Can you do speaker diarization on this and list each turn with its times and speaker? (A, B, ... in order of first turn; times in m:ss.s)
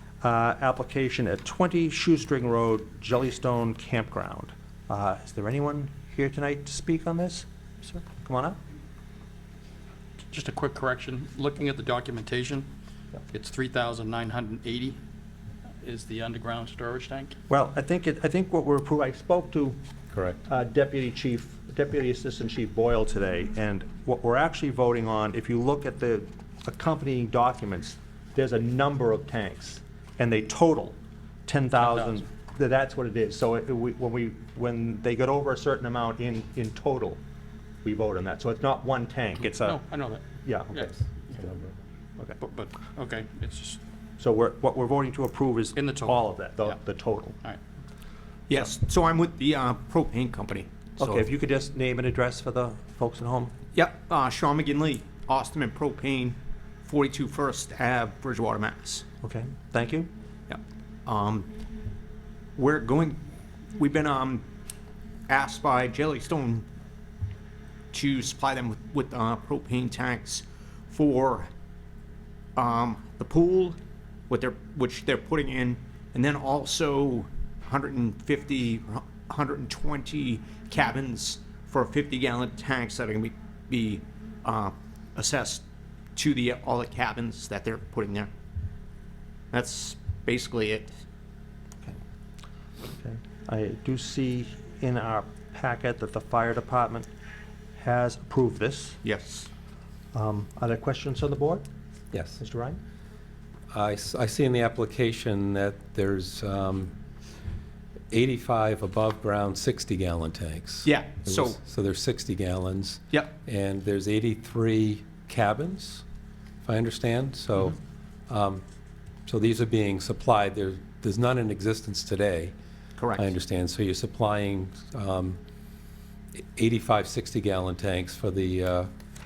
0:00.2-0:08.6 A
0:10.3-0:12.7 B
0:13.3-0:15.0 B
0:15.8-0:17.4 B
0:17.5-0:19.8 A
0:20.1-0:20.4 C
0:20.4-0:37.2 A
0:31.8-0:32.2 B
0:37.8-0:39.8 A
0:39.4-0:41.7 B
0:40.4-0:41.0 A
0:42.4-0:43.8 B
0:44.2-0:47.4 A
0:45.7-0:46.7 B
0:48.5-0:51.2 D
0:51.0-0:53.5 A
0:53.7-0:59.0 D
0:59.2-1:00.1 A
1:00.5-1:01.5 D
1:02.6-1:03.2 D
1:03.8-1:04.4 D
1:05.3-1:06.6 D
1:07.9-1:11.5 D
1:12.6-1:13.8 D
1:14.3-1:25.6 D
1:26.1-1:28.3 D
1:29.5-1:31.0 D
1:33.0-1:37.1 A
1:37.8-1:39.0 A
1:39.0-1:39.5 D
1:40.1-1:41.6 A
1:42.1-1:42.4 C
1:42.4-1:42.8 A
1:43.7-1:46.9 C
1:48.1-1:56.0 C
1:50.8-1:51.6 D
1:56.6-1:57.8 C
1:58.3-1:58.6 C
1:59.2-2:02.5 C
2:03.0-2:03.3 D
2:03.2-2:05.4 C
2:06.3-2:08.9 C